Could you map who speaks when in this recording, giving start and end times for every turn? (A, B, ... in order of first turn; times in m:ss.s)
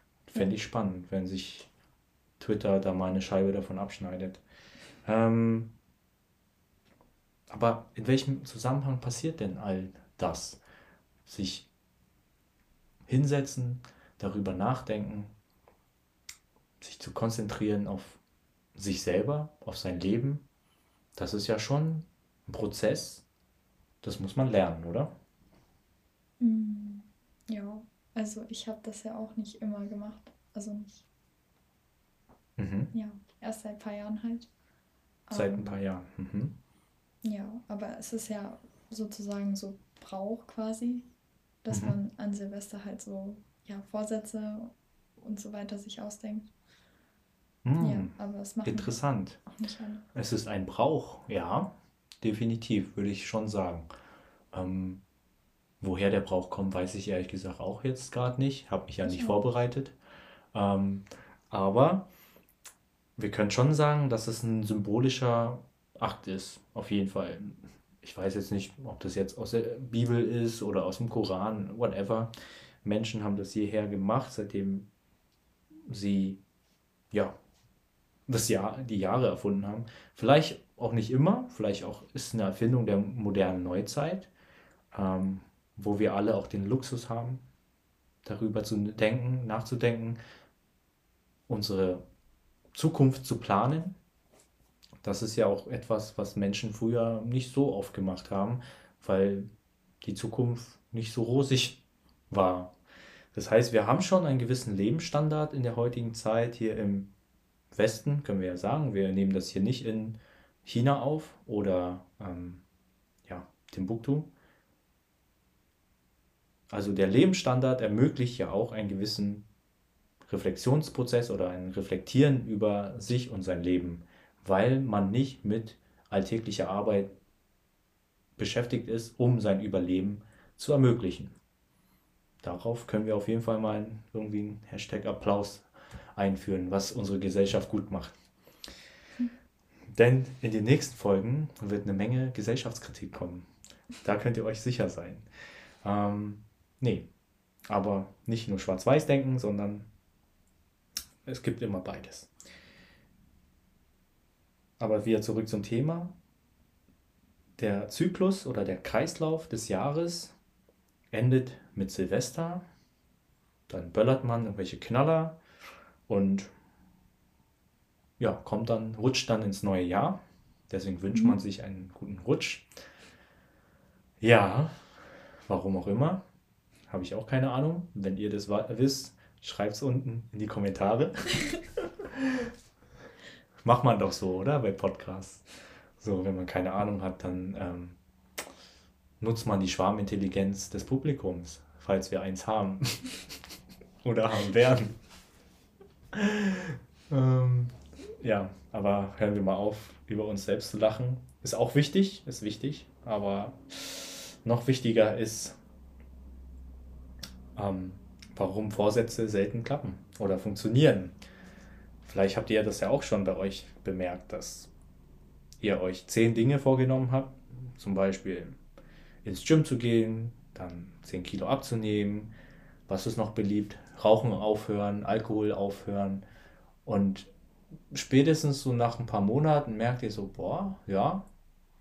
0:00.3-0:01.7 A
0:02.4-0:04.4 A
0:05.0-0:05.7 A
0:07.5-0:10.6 A
0:11.2-0:11.7 A
0:13.1-0:15.3 A
0:16.8-0:18.2 A
0:18.7-0:20.4 A
0:21.2-0:23.2 A
0:24.0-0:25.1 A
0:26.4-0:31.0 B
0:32.6-0:32.9 A
0:32.9-0:34.5 B
0:35.3-0:35.8 B
0:35.3-0:36.6 A
0:37.2-0:41.1 B
0:41.6-0:46.5 B
0:41.7-0:42.0 A
0:47.6-0:49.4 A
0:47.8-0:50.0 B
0:50.1-0:53.9 A
0:54.5-0:55.0 A
0:55.8-0:59.9 A
0:59.0-0:59.4 B
1:00.5-1:02.1 A
1:03.2-1:12.3 A
1:12.8-1:14.9 A
1:15.8-1:16.4 A
1:17.1-1:17.4 A
1:18.3-1:24.3 A
1:24.9-1:27.4 A
1:28.2-1:30.2 A
1:31.5-1:32.0 A
1:32.7-1:33.9 A
1:35.0-1:39.5 A
1:40.0-1:42.7 A
1:43.3-1:47.1 A
1:47.7-1:52.6 A
1:53.2-1:54.3 A
1:56.7-1:59.4 A
2:00.2-2:07.1 A
2:08.4-2:11.3 A
2:12.4-2:18.1 A
2:19.9-2:23.5 A
2:24.0-2:25.2 A
2:25.8-2:27.1 A
2:27.7-2:29.9 A
2:31.2-2:32.3 A
2:34.8-2:36.1 A
2:37.6-2:40.3 A
2:41.1-2:42.6 A
2:43.7-2:45.4 A
2:46.1-2:46.5 A
2:48.2-2:52.7 A
2:51.1-2:51.4 B
2:54.2-2:54.8 A
2:55.5-2:56.2 A
2:56.9-3:02.5 A
3:03.6-3:05.4 A
3:06.0-3:08.0 A
3:09.2-3:13.1 A
3:14.0-3:15.0 A
3:16.1-3:25.6 A
3:27.5-3:31.1 A
3:32.0-3:34.7 A
3:35.6-3:38.6 A
3:39.2-3:42.3 A
3:42.9-3:46.2 A
3:46.8-3:47.3 A
3:47.9-3:51.2 A